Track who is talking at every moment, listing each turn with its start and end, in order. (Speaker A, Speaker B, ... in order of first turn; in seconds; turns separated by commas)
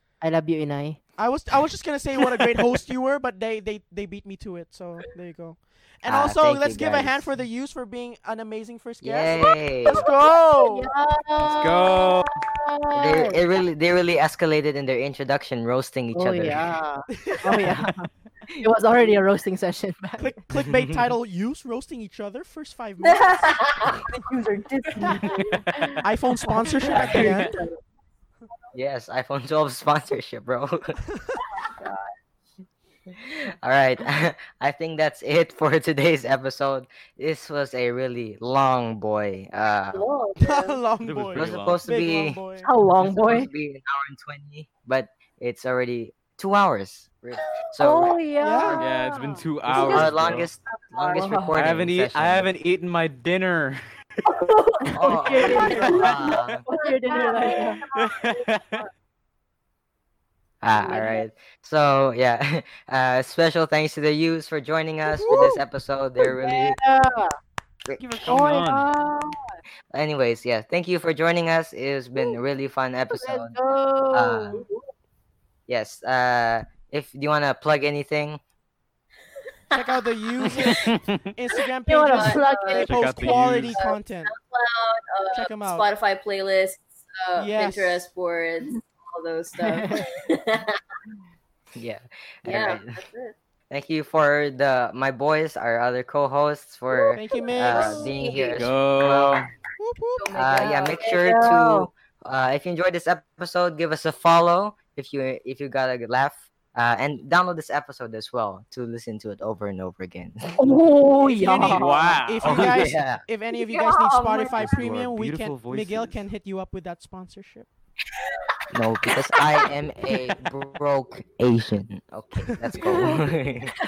Speaker A: 0.2-1.0, Speaker B: 1.2-10.9, Speaker C: 6.0-7.3, Speaker C: 9.0-10.0, Speaker A: 10.2-13.4, Speaker D: 11.5-12.3, Speaker C: 12.9-16.7, Speaker A: 16.1-18.1, Speaker B: 17.1-17.6, Speaker A: 18.6-20.4, Speaker B: 20.2-23.4, Speaker C: 20.6-21.0, Speaker E: 23.0-25.6, Speaker A: 25.2-25.9, Speaker B: 26.0-27.6, Speaker A: 26.5-27.8, Speaker C: 28.7-31.0, Speaker E: 31.5-32.1, Speaker C: 33.1-40.1, Speaker F: 39.9-40.8, Speaker B: 40.4-42.7, Speaker D: 41.0-41.8, Speaker C: 41.4-42.4, Speaker A: 42.6-43.5, Speaker C: 43.0-48.1, Speaker A: 47.8-50.1, Speaker B: 48.4-48.8, Speaker D: 48.8-50.5, Speaker C: 49.7-52.5, Speaker E: 50.7-51.6, Speaker D: 51.5-53.8, Speaker A: 54.9-57.8, Speaker C: 54.9-56.6, Speaker F: 55.4-56.3, Speaker E: 55.5-55.7, Speaker D: 55.7-56.2, Speaker E: 57.0-58.9, Speaker F: 57.2-57.7, Speaker D: 58.0-58.8, Speaker C: 60.6-66.8, Speaker F: 60.8-61.2, Speaker A: 65.2-65.5, Speaker A: 66.2-67.3, Speaker C: 67.8-68.3, Speaker D: 68.0-68.9, Speaker A: 68.3-69.5, Speaker C: 69.9-73.6, Speaker A: 73.1-74.8, Speaker C: 74.1-74.7, Speaker C: 75.7-78.4, Speaker F: 79.7-80.6, Speaker B: 79.7-84.3, Speaker D: 80.8-81.2, Speaker A: 81.8-83.0, Speaker F: 82.1-82.4, Speaker E: 82.4-82.8, Speaker D: 82.8-83.8, Speaker F: 83.2-90.8, Speaker B: 85.3-85.9, Speaker B: 87.4-88.1, Speaker A: 89.6-90.1, Speaker C: 91.8-93.0, Speaker F: 92.5-93.3, Speaker C: 93.7-99.5, Speaker F: 96.9-98.7, Speaker B: 97.2-98.2, Speaker D: 98.5-99.5, Speaker B: 99.8-100.3, Speaker F: 100.3-101.2, Speaker C: 100.3-110.8, Speaker A: 101.0-101.9, Speaker A: 110.6-112.2, Speaker B: 111.3-117.7, Speaker D: 111.7-112.8, Speaker C: 112.4-113.2, Speaker E: 113.5-115.0, Speaker D: 114.6-116.3, Speaker C: 118.7-123.7, Speaker B: 122.5-122.8